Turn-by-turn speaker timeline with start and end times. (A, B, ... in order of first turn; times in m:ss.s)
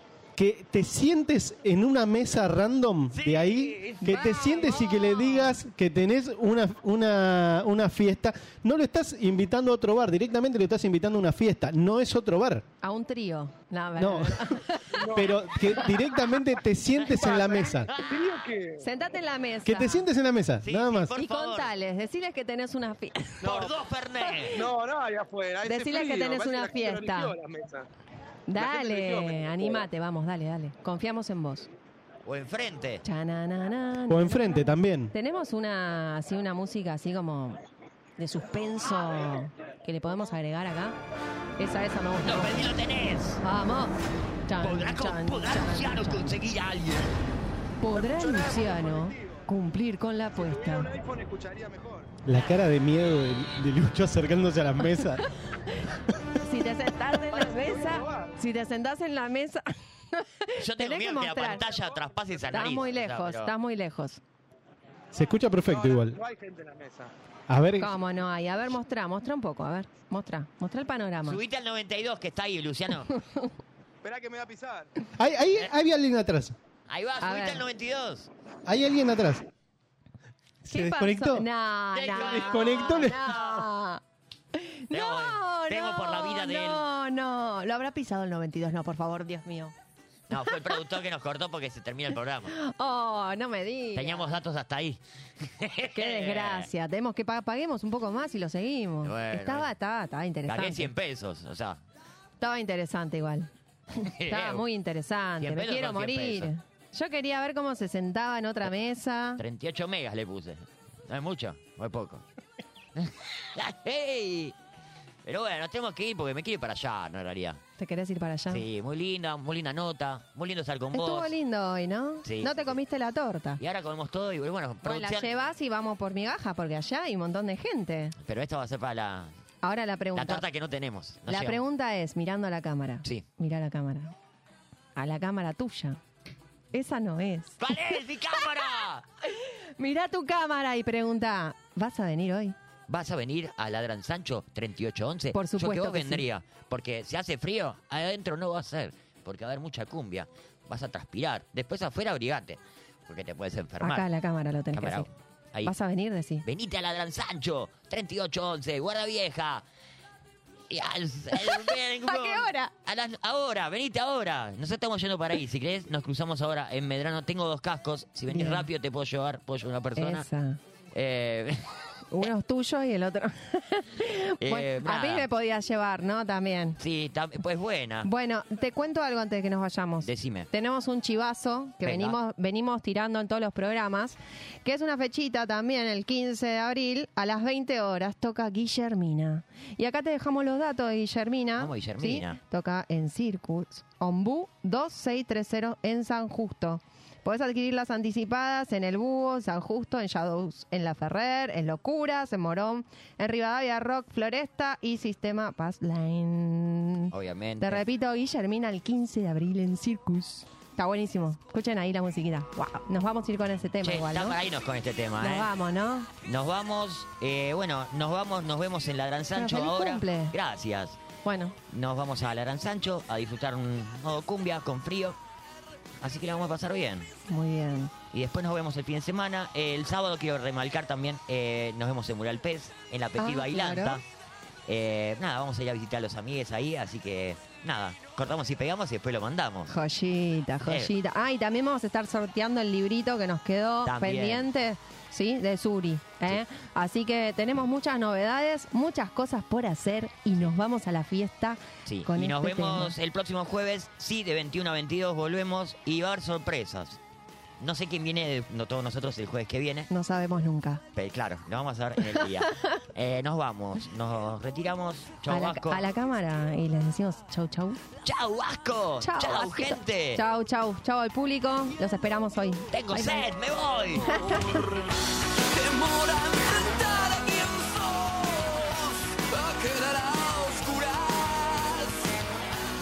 0:00.4-0:12.6 A
0:03.1-0:04.0 B
0:04.1-0:05.5 C
0:12.8-0:15.0 C
0:14.0-0:14.5 A
0:15.0-0:16.0 D
0:15.1-0:17.9 A
0:17.0-0:18.2 B
0:17.1-0:18.8 D
0:18.8-0:20.1 C
0:19.6-0:21.1 A
0:20.6-0:21.7 B
0:21.1-0:23.4 C
0:23.4-0:24.7 B
0:23.4-0:23.7 D
0:24.5-0:27.9 D
0:25.6-0:27.3 C
0:28.5-0:31.7 C
0:28.5-0:29.9 D
0:32.2-0:33.0 B
0:33.0-0:37.6 C
0:34.1-0:35.1 A
0:38.2-0:41.0 C
0:41.6-0:42.7 C
0:42.2-0:43.4 B
0:43.4-0:44.0 C
0:44.5-0:46.4 C
0:44.6-0:47.1 B
0:47.8-0:50.9 C
0:47.9-0:49.4 D
0:50.4-0:52.1 D
0:52.2-0:55.2 A
0:56.4-1:01.6 C
0:57.3-0:58.3 D
1:00.6-1:03.5 B
1:01.6-1:02.5 D
1:02.5-1:04.2 C
1:05.1-1:06.2 A
1:05.6-1:07.1 D
1:07.5-1:07.9 A
1:07.8-1:11.4 C
1:11.2-1:13.1 B
1:14.0-1:14.9 D
1:15.2-1:16.5 A
1:16.9-1:18.3 B
1:17.2-1:17.6 C
1:18.6-1:19.4 A
1:20.6-1:21.5 A
1:20.7-1:24.0 C
1:21.9-1:23.6 B
1:22.1-1:23.4 A
1:24.5-1:29.7 C
1:24.9-1:26.8 B
1:30.3-1:32.5 B
1:32.5-1:34.3 C
1:33.9-1:36.7 B
1:35.9-1:40.9 C
1:39.0-1:39.7 B
1:40.4-1:41.8 B
1:42.4-1:49.4 C
1:44.0-1:44.6 B
1:45.4-1:46.5 B
1:49.4-1:52.2 B
1:53.0-1:54.6 B
1:55.2-1:57.6 B
1:57.8-1:58.6 C
1:58.5-2:01.3 B
2:00.9-2:03.6 C
2:02.2-2:02.8 B
2:03.6-2:05.3 B
2:04.8-2:08.2 C
2:08.2-2:09.3 B
2:09.6-2:10.4 C
2:10.1-2:11.6 B
2:11.3-2:14.1 C
2:15.0-2:16.0 C
2:16.7-2:17.8 C
2:17.6-2:19.0 B
2:19.2-2:22.6 C
2:22.9-2:34.0 B
2:25.3-2:26.2 C
2:33.8-2:35.1 C
2:34.7-2:35.7 B
2:35.6-2:36.4 C
2:36.4-2:39.6 B
2:40.7-2:50.2 B
2:42.0-2:42.7 C
2:48.3-2:48.6 C
2:50.0-2:50.6 C
2:50.9-2:51.7 B
2:52.1-2:56.8 C
2:54.4-2:55.3 B
2:56.8-2:58.1 B
2:58.0-3:34.4 C
3:00.0-3:00.5 B
3:01.8-3:02.2 B
3:11.6-3:12.4 B
3:27.1-3:27.8 B
3:33.8-3:35.5 B
3:35.2-3:36.1 C
3:36.2-3:41.0 B
3:39.4-3:40.3 C
3:41.2-3:41.6 C
3:41.7-3:45.2 B
3:46.0-3:47.1 B
3:47.3-3:47.9 C
3:48.1-3:54.0 B
3:53.2-3:54.0 C
3:54.7-3:59.7 B
3:59.7-4:12.9 C
4:00.6-4:00.9 B
4:03.8-4:04.5 B
4:11.8-4:17.0 B
4:17.6-4:19.9 B
4:19.9-4:20.8 C
4:21.0-4:25.8 B
4:25.3-4:27.8 C
4:28.0-4:30.2 B
4:29.0-4:33.2 C
4:32.7-4:34.2 B
4:34.1-4:34.6 C
4:34.1-4:34.9 E
4:35.4-4:42.1 E